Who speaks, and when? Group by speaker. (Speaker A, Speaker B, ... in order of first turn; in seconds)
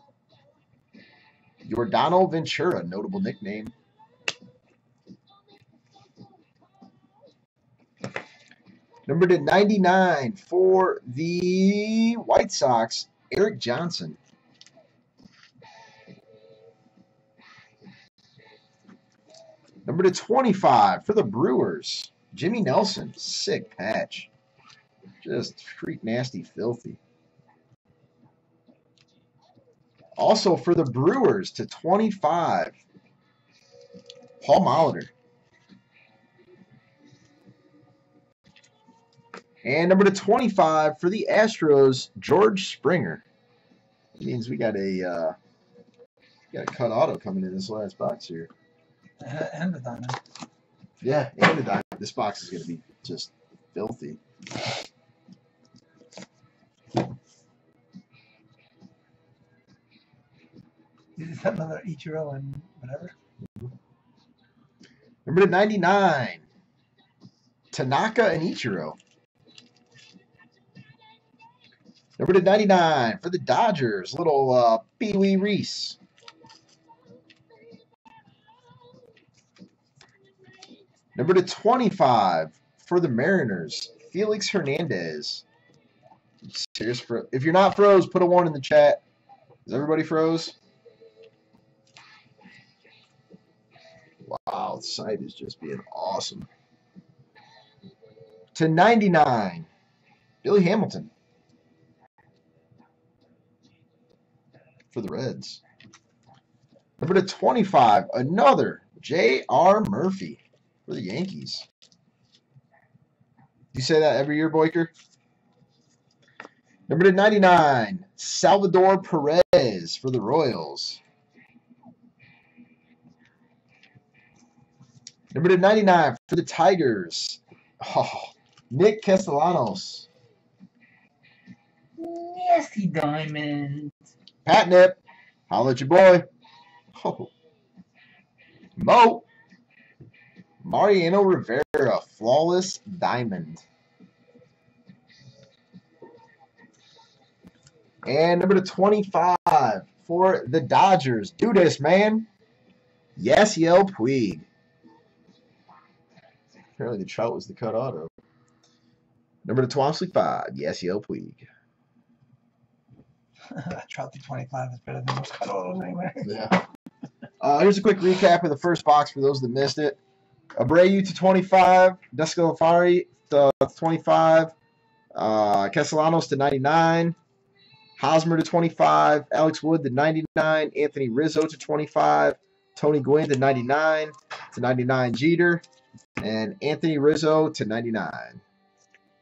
Speaker A: 1.6-3.7, 9.1-14.2, 19.9-24.3, 25.2-27.0, 30.2-32.8, 34.4-35.1, 39.6-43.2, 44.2-45.4, 46.5-48.5, 51.0-54.2, 65.3-66.5, 67.7-69.0, 72.2-76.0, 81.2-85.5, 86.4-89.0, 89.7-90.6, 94.2-96.5, 98.5-99.7, 100.4-101.1, 104.9-105.6, 107.0-111.7, 113.7-114.9, 116.9-121.0, 125.3-130.1, 134.4-136.3, 136.9-137.3, 138.8-139.3, 140.6-143.6, 148.1-152.3, 153.2-154.5, 156.8-158.1, 159.4-161.5, 166.2-166.6, 167.4-170.0, 170.6-174.5, 175.1-177.2, 178.0-185.6, 186.2-188.4
Speaker B: 49.2-50.2, 61.2-63.1, 132.0-133.9, 163.5-166.3